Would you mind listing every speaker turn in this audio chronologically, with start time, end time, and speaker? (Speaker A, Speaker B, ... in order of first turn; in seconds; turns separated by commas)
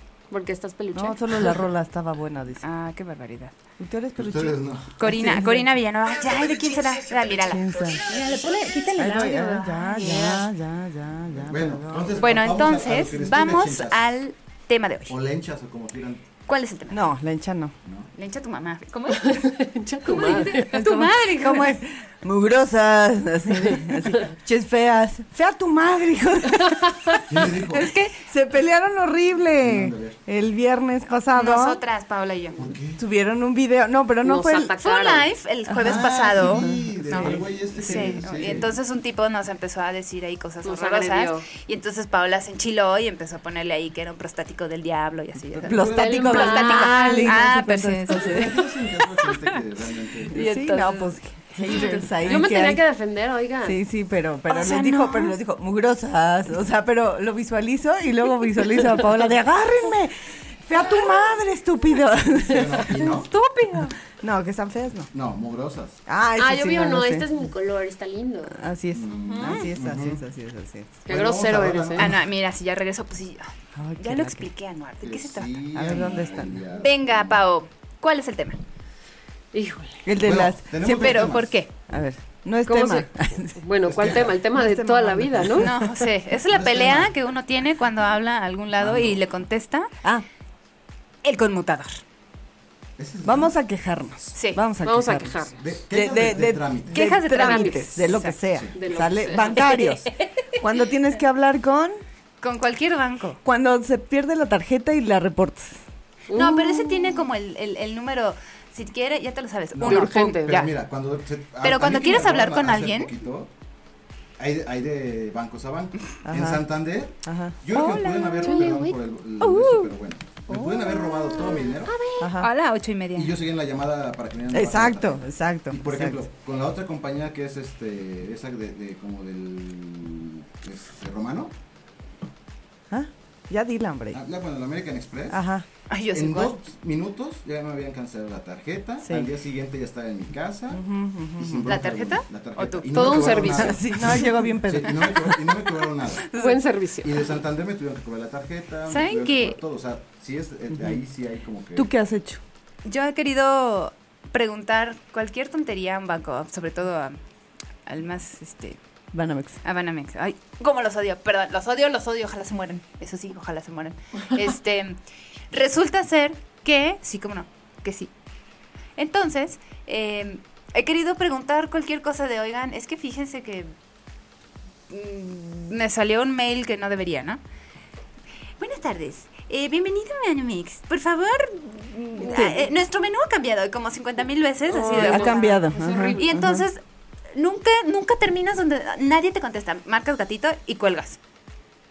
Speaker A: 0.3-1.6, Speaker B: 0.9-2.6, Speaker C: 2.6-3.5, Speaker B: 3.8-5.7, Speaker D: 4.2-4.9, Speaker C: 5.0-10.4, Speaker B: 7.4-8.1, Speaker B: 8.9-12.3, Speaker D: 11.4-14.0, Speaker C: 12.2-15.2, Speaker D: 15.1-16.2, Speaker C: 16.5-17.1, Speaker B: 16.9-17.7, Speaker C: 18.1-19.5, Speaker A: 19.2-20.8, Speaker C: 20.0-21.8, Speaker B: 20.2-31.8, Speaker A: 26.8-27.2, Speaker D: 27.2-27.9, Speaker C: 27.7-28.2, Speaker D: 29.6-30.2, Speaker C: 31.3-32.6, Speaker D: 32.6-33.0, Speaker B: 33.0-34.8, Speaker A: 34.2-35.3, Speaker C: 34.8-48.6, Speaker B: 35.7-38.2, Speaker D: 35.8-38.7, Speaker A: 40.6-41.5, Speaker B: 45.5-48.6, Speaker D: 45.7-46.0, Speaker A: 46.0-47.3, Speaker D: 48.2-50.4, Speaker B: 50.3-52.8, Speaker C: 50.3-51.1, Speaker C: 51.6-52.3, Speaker A: 52.2-53.8, Speaker B: 53.6-60.1, Speaker C: 54.5-55.3, Speaker B: 60.6-62.9, Speaker D: 62.4-63.3, Speaker C: 63.0-63.9, Speaker B: 64.2-65.1, Speaker D: 65.1-66.0, Speaker B: 66.0-67.3, Speaker A: 66.4-68.5, Speaker B: 68.5-71.0, Speaker D: 68.9-70.2, Speaker C: 69.3-69.6, Speaker A: 71.0-72.0, Speaker D: 71.1-72.2, Speaker C: 72.0-73.5, Speaker B: 73.7-74.5, Speaker C: 74.0-75.5, Speaker D: 75.0-77.4, Speaker B: 75.7-76.6, Speaker C: 76.8-78.6, Speaker A: 79.5-80.0, Speaker B: 80.0-83.6, Speaker D: 80.2-81.5, Speaker C: 81.0-81.7, Speaker A: 82.7-85.7, Speaker D: 83.8-84.4, Speaker B: 84.2-85.7, Speaker C: 85.6-89.9, Speaker D: 86.5-87.1, Speaker D: 88.8-89.2, Speaker C: 91.2-92.0, Speaker D: 93.0-93.5, Speaker B: 93.2-95.4, Speaker C: 94.3-94.6, Speaker A: 94.8-95.5, Speaker D: 95.6-96.9, Speaker B: 95.9-102.0, Speaker C: 96.9-98.3, Speaker A: 97.3-98.1, Speaker A: 98.7-99.6, Speaker C: 102.4-103.4, Speaker B: 103.4-105.8, Speaker A: 106.3-107.1, Speaker C: 106.3-110.7, Speaker D: 109.7-113.5, Speaker A: 109.8-110.6, Speaker C: 111.6-113.1, Speaker D: 114.4-121.9, Speaker B: 116.2-116.6, Speaker B: 117.2-117.6, Speaker C: 117.7-118.8, Speaker A: 118.4-119.9, Speaker C: 120.5-121.6, Speaker A: 121.8-122.3, Speaker B: 122.2-122.5, Speaker C: 122.4-123.4, Speaker D: 123.1-131.5, Speaker B: 124.5-126.2, Speaker B: 132.9-134.2, Speaker D: 134.1-135.4, Speaker B: 135.3-135.7, Speaker C: 135.9-136.5, Speaker D: 136.1-140.8, Speaker B: 139.0-139.3, Speaker B: 140.7-141.7, Speaker D: 141.4-146.3, Speaker C: 141.6-143.6, Speaker A: 142.9-143.7, Speaker B: 143.6-146.6, Speaker A: 146.3-147.1, Speaker D: 147.0-151.9, Speaker C: 148.9-149.6, Speaker B: 150.7-151.0, Speaker B: 151.7-152.4, Speaker C: 152.8-157.2, Speaker C: 157.8-158.8, Speaker B: 159.1-159.6, Speaker C: 159.6-165.0, Speaker C: 165.5-168.1, Speaker C: 169.0-173.7, Speaker C: 174.9-177.4, Speaker C: 178.6-185.6, Speaker B: 182.3-182.7, Speaker A: 184.7-186.3, Speaker B: 184.9-186.6, Speaker C: 186.2-186.8, Speaker C: 187.3-191.2